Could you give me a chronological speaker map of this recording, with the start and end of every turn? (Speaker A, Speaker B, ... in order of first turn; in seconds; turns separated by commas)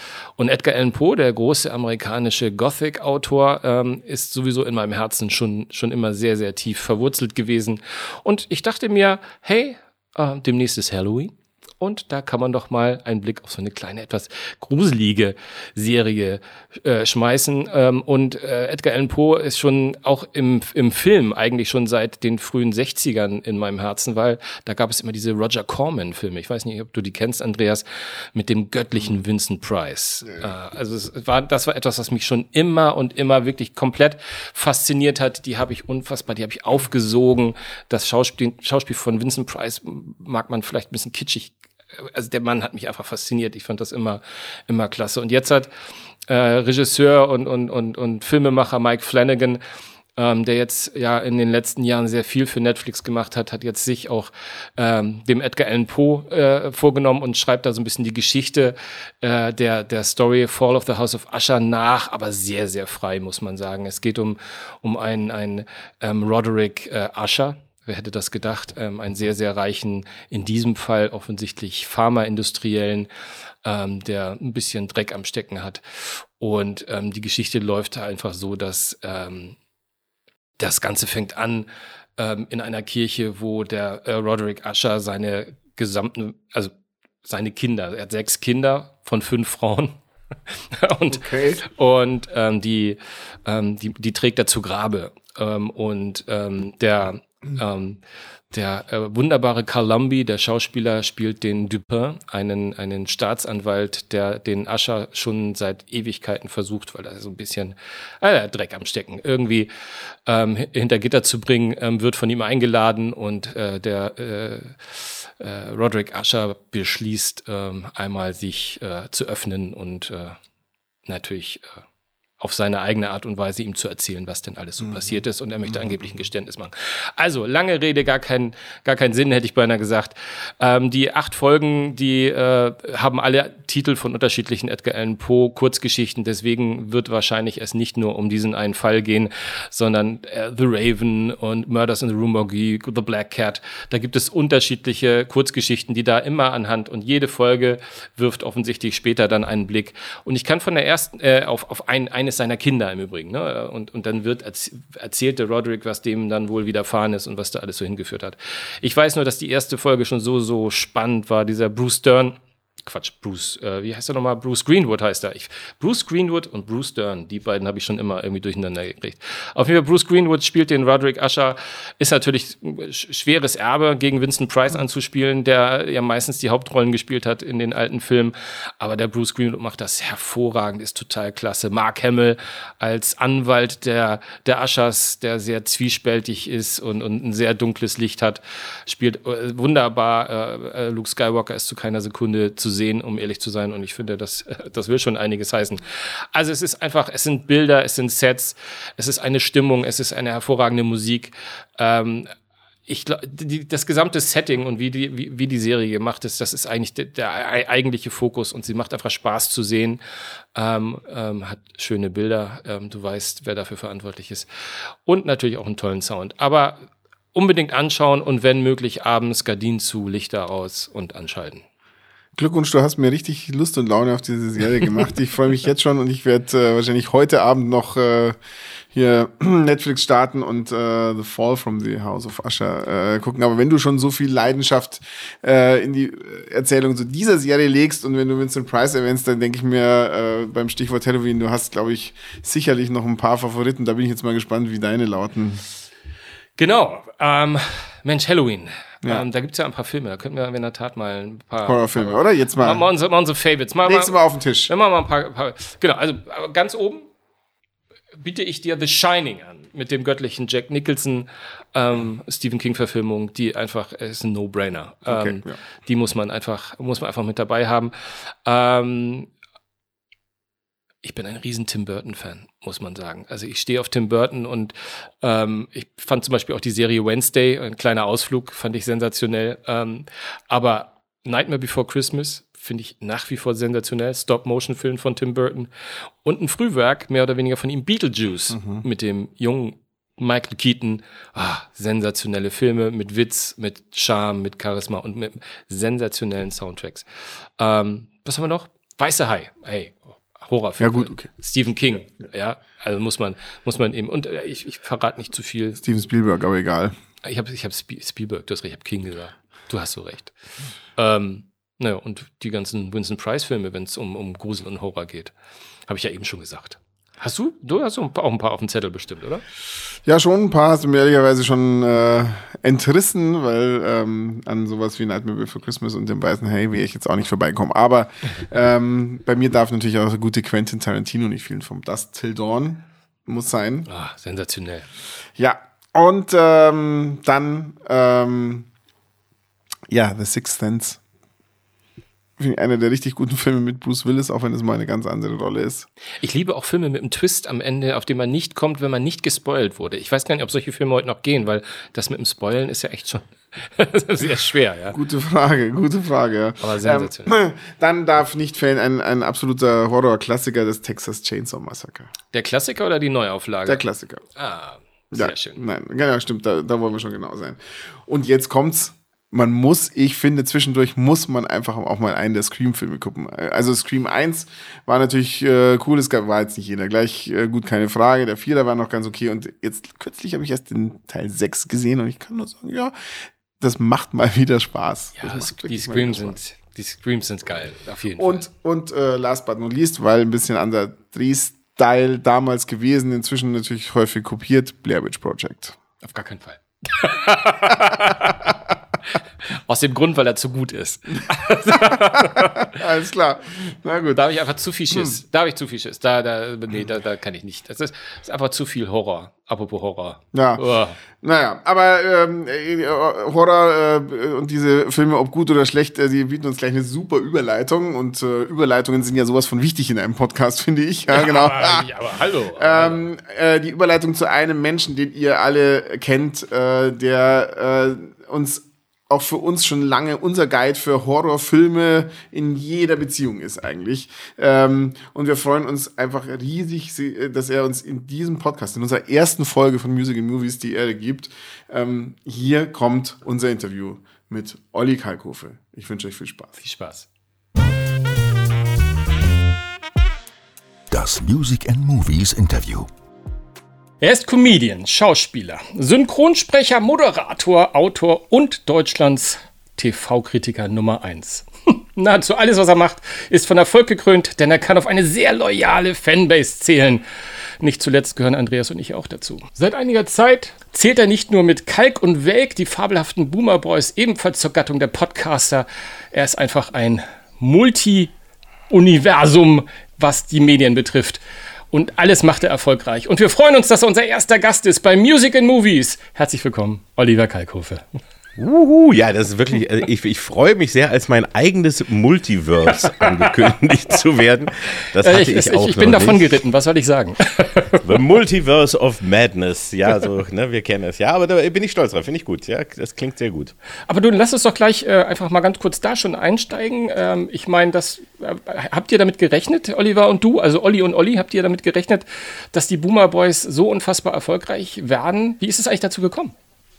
Speaker A: 0.4-45.7, Speaker A: 46.3-49.6, Speaker A: 50.2-73.1, Speaker A: 73.6-79.5, Speaker A: 80.6-86.7, Speaker A: 87.2-90.0, Speaker A: 90.7-98.0, Speaker B: 91.1-91.6, Speaker A: 98.5-109.7, Speaker A: 110.2-120.4, Speaker A: 121.0-121.8, Speaker A: 122.4-202.3, Speaker A: 202.9-210.0, Speaker A: 210.5-214.5, Speaker A: 215.1-216.8, Speaker A: 217.3-221.6, Speaker B: 222.4-228.4, Speaker B: 228.9-245.6, Speaker A: 246.6-257.1, Speaker B: 251.6-252.8, Speaker B: 253.8-254.7, Speaker A: 258.2-267.9, Speaker B: 265.1-265.6, Speaker A: 268.4-269.3, Speaker A: 271.0-285.7, Speaker A: 286.2-297.1, Speaker B: 288.5-288.8, Speaker A: 297.6-305.8, Speaker B: 300.8-301.3, Speaker B: 305.8-306.9, Speaker A: 307.2-310.3, Speaker A: 311.0-315.3, Speaker A: 315.9-319.4, Speaker B: 320.0-333.9, Speaker A: 333.9-334.9, Speaker B: 335.4-338.7, Speaker B: 339.9-341.0, Speaker B: 342.4-345.9, Speaker A: 346.2-355.0, Speaker B: 354.9-362.1, Speaker A: 356.6-357.3, Speaker A: 362.3-363.8, Speaker B: 363.6-364.2, Speaker A: 364.3-365.6, Speaker B: 365.1-382.9, Speaker B: 383.6-386.4, Speaker A: 385.2-388.5, Speaker B: 388.2-395.8, Speaker A: 396.0-398.5, Speaker A: 399.0-402.7, Speaker B: 401.9-404.2, Speaker A: 404.1-411.0, Speaker B: 404.9-405.2, Speaker B: 410.3-421.9, Speaker A: 421.1-423.0, Speaker B: 422.6-446.5, Speaker A: 446.6-447.1, Speaker C: 450.9-452.9, Speaker A: 454.0-467.0, Speaker A: 467.6-478.1, Speaker A: 478.7-487.8, Speaker D: 488.4-496.2, Speaker A: 492.7-493.3, Speaker A: 495.0-497.8, Speaker D: 497.8-503.5, Speaker A: 503.9-516.3